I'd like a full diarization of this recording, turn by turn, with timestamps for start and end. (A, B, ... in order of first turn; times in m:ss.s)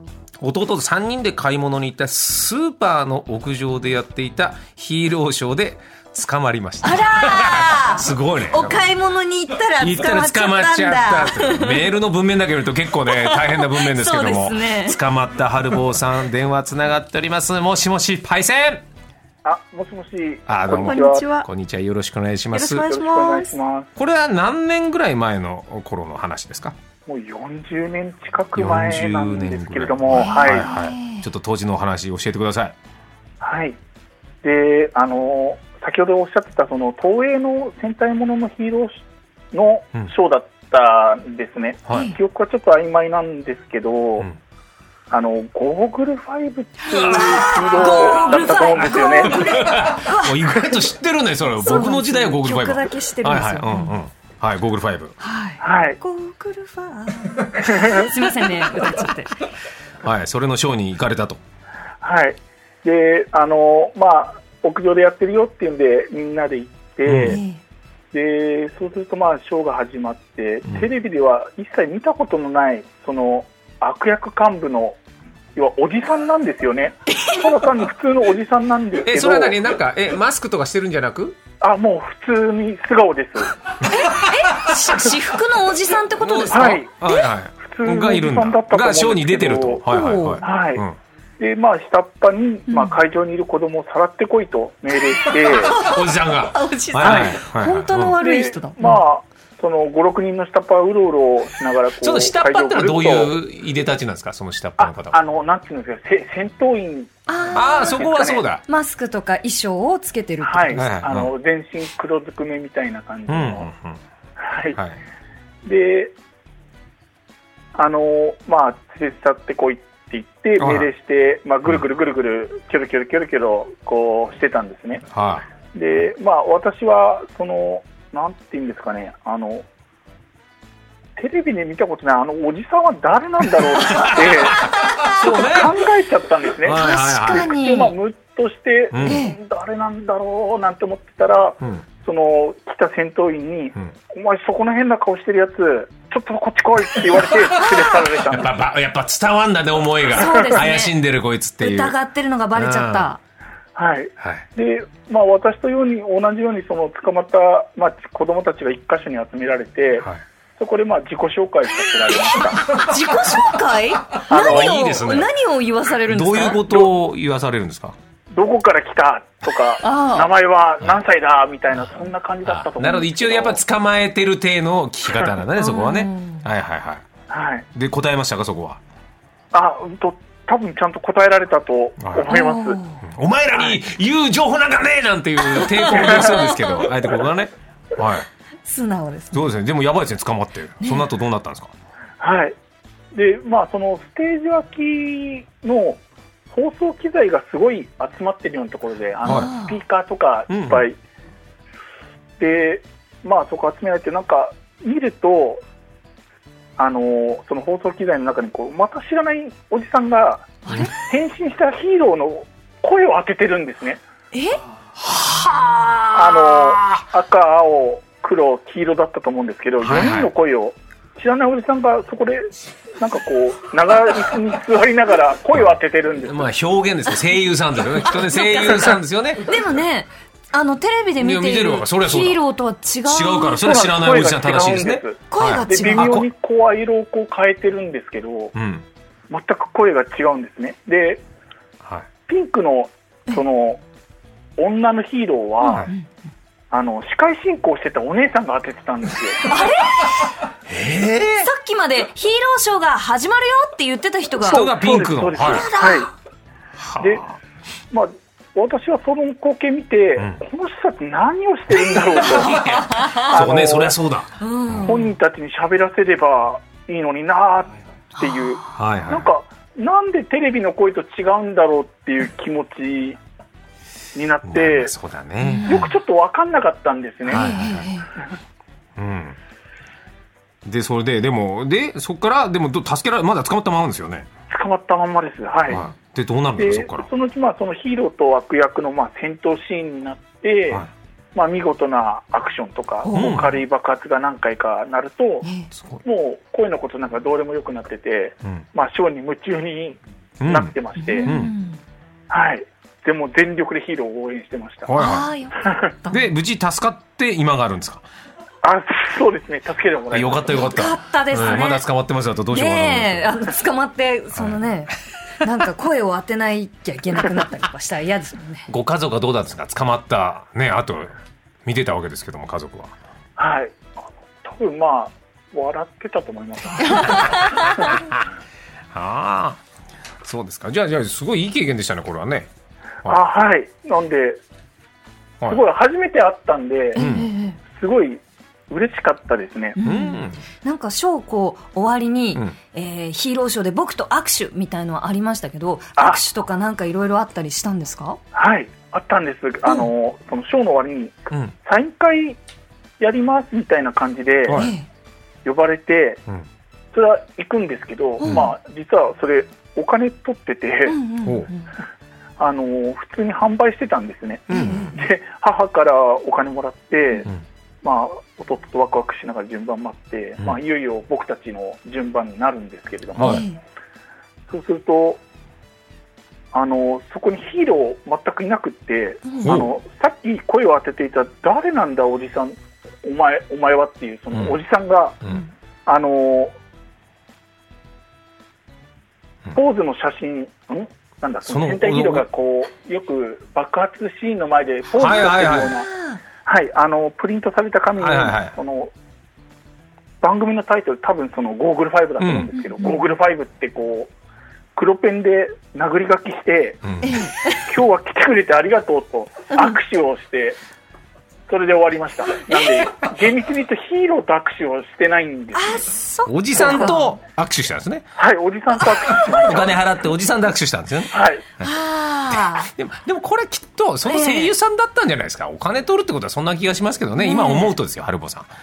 0:00.4-0:08.9 A
0:06.8-0:11.9 B
0:09.8-0:18.8 A
0:13.1-0:15.0 B
0:19.4-0:21.3 C
0:20.5-0:22.9 A
0:20.7-0:21.5 B
0:22.5-0:23.6 B
0:22.9-0:23.9 C
0:24.0-0:26.8 A
0:27.1-0:30.7 C
0:28.5-0:32.8 A
0:30.1-0:31.3 B
0:33.4-0:33.8 C
0:34.4-0:44.3 C
0:41.9-0:42.1 A
0:41.9-0:42.2 B
0:45.1-0:49.6 C
0:46.9-0:50.8 B
0:46.9-0:55.2 A
0:51.6-0:54.0 B
0:55.2-0:59.5 B
0:55.6-0:56.0 C
0:57.6-0:58.1 C
1:00.0-1:01.4 A
1:02.0-1:07.4 C
1:07.1-1:07.4 A
1:07.2-1:07.6 B
1:08.1-1:15.0 C
1:15.6-1:19.6 C
1:17.1-1:17.4 B
1:19.0-1:21.4 A
1:21.6-1:23.5 C
1:23.9-1:27.2 B
1:26.2-1:31.0 A
1:26.5-1:26.9 C
1:27.6-1:29.8 C
1:29.9-1:30.4 B
1:30.4-1:30.9 C
1:31.4-1:35.8 C
1:32.7-1:33.0 B
1:35.2-1:39.0 B
1:35.7-1:38.2 A
1:38.2-1:43.4 C
1:42.0-1:45.2 A
1:44.8-1:48.4 C
1:47.3-1:48.1 B
1:47.5-1:48.6 A
1:48.7-1:50.8 B
1:50.4-1:53.7 C
1:50.8-1:51.3 A
1:53.3-1:54.0 A
1:54.4-1:54.8 C
1:55.6-1:56.1 C
1:57.8-2:05.0 C
2:00.6-2:00.9 A
2:05.1-2:05.4 A
2:05.7-2:09.6 C
2:11.2-2:28.6 C
2:13.8-2:15.8 A
2:16.6-2:17.5 A
2:16.7-2:17.9 B
2:18.9-2:19.2 A
2:19.0-2:19.4 B
2:28.1-2:32.0 A
2:30.1-2:30.9 B
2:30.2-2:30.6 C
2:31.6-2:33.2 B
2:32.6-2:33.1 A
2:33.8-2:42.7 C
2:34.2-2:34.5 A
2:42.1-2:46.6 B
2:43.1-2:43.4 A
2:44.3-2:45.3 A
2:44.3-2:44.8 C
2:46.1-2:48.0 A
2:48.3-2:53.6 C
2:49.8-2:50.3 B
2:52.4-2:57.0 A
2:55.6-2:56.4 B
2:57.3-2:57.7 C
2:57.7-2:58.8 A
2:59.5-3:02.8 C
3:02.0-3:02.3 A
3:02.3-3:03.0 B
3:03.0-3:08.3 A
3:05.5-3:06.8 B
3:08.6-3:09.4 B
3:09.3-3:11.7 A
3:10.8-3:11.1 B
3:12.2-3:12.6 C
3:13.1-3:21.0 C
3:19.2-3:19.5 A
3:19.2-3:19.8 B
3:20.5-3:20.8 A
3:22.4-3:25.6 C
3:26.8-3:34.0 C
3:30.7-3:30.9 B
3:34.3-3:34.6 B
3:35.0-3:37.0 A
3:36.1-3:46.5 C
3:39.8-3:40.3 A
3:45.5-3:49.6 A
3:48.0-3:53.6 B
3:51.2-3:52.4 A
3:53.1-3:56.3 A
3:53.6-3:58.6 C
3:55.3-3:56.2 B
3:58.6-3:58.8 A
3:59.3-4:01.2 C
4:02.3-4:03.8 C
4:04.6-4:05.9 C
4:05.6-4:06.0 B
4:06.7-4:09.5 C
4:09.4-4:10.1 B
4:10.7-4:11.5 A
4:11.4-4:14.7 B
4:14.4-4:15.7 A
4:14.4-4:16.1 C
4:15.4-4:16.1 B
4:16.8-4:17.4 A
4:17.0-4:17.2 C
4:17.9-4:24.0 C
4:22.0-4:25.0 A
4:22.7-4:23.3 B
4:24.4-4:25.1 B
4:24.8-4:33.2 C
4:28.2-4:28.4 B
4:28.7-4:29.3 A
4:34.2-4:34.9 C
4:34.4-4:35.9 A
4:35.4-4:35.8 B
4:35.6-4:37.5 C
4:37.3-4:38.1 B
4:37.3-4:37.9 A
4:39.0-4:39.4 A
4:40.6-4:44.3 A
4:44.5-4:45.8 C
4:45.7-4:47.1 A
4:46.6-4:55.5 C
4:53.0-4:53.4 B
4:53.1-4:53.6 A
4:55.4-4:55.7 B
4:55.8-4:56.0 A
4:56.0-5:01.3 C
5:00.4-5:01.6 A
5:01.0-5:01.8 B
5:02.3-5:04.9 C
5:04.8-5:05.3 A
5:05.0-5:06.3 B
5:06.1-5:08.0 A
5:08.6-5:10.8 C
5:10.1-5:13.3 A
5:10.5-5:11.8 B
5:12.5-5:18.7 B
5:18.7-5:21.1 A
5:21.6-5:22.9 A
5:23.4-5:28.0 C
5:26.9-5:27.8 B
5:27.8-5:28.2 A
5:28.9-5:29.6 A
5:30.2-5:32.5 A
5:33.0-5:34.4 C
5:35.5-5:37.0 C
5:37.0-5:37.6 B
5:37.0-5:37.3 A
5:37.7-5:39.8 C
5:39.8-5:48.2 B
5:39.8-5:40.4 A
5:46.0-5:46.2 C
5:48.3-5:52.4 C
5:53.0-5:54.7 C
5:54.5-5:54.7 A
5:54.5-5:54.9 B
5:55.4-5:56.2 C
5:56.9-6:01.0 C
5:58.2-5:58.5 B
5:58.2-5:58.5 A
6:00.9-6:01.7 B
6:01.2-6:01.5 A
6:02.4-6:07.3 C
6:04.5-6:04.9 A
6:04.5-6:04.9 B
6:07.8-6:13.5 C
6:13.2-6:13.4 A
6:13.2-6:13.6 B
6:14.5-6:15.2 C
6:16.5-6:25.2 C
6:19.3-6:19.5 B
6:19.4-6:19.7 A
6:25.9-6:26.5 C
6:29.5-6:35.9 C
6:31.5-6:32.3 A
6:35.0-6:35.8 A
6:35.6-6:36.2 B
6:36.4-6:38.9 C
6:38.0-6:38.6 A
6:40.2-6:44.1 C
6:42.2-6:42.5 A
6:42.6-6:43.0 B
6:44.8-6:50.6 C
6:46.8-6:47.3 A
6:47.0-6:47.6 B
6:51.5-6:55.8 C
6:55.6-6:57.1 B
6:56.3-6:58.1 A
6:56.6-6:56.9 C
6:58.2-6:59.9 C
6:59.1-7:01.8 A
7:01.1-7:01.4 C
7:01.6-7:02.7 B
7:02.3-7:08.5 A
7:04.1-7:04.5 B
7:07.2-7:07.8 B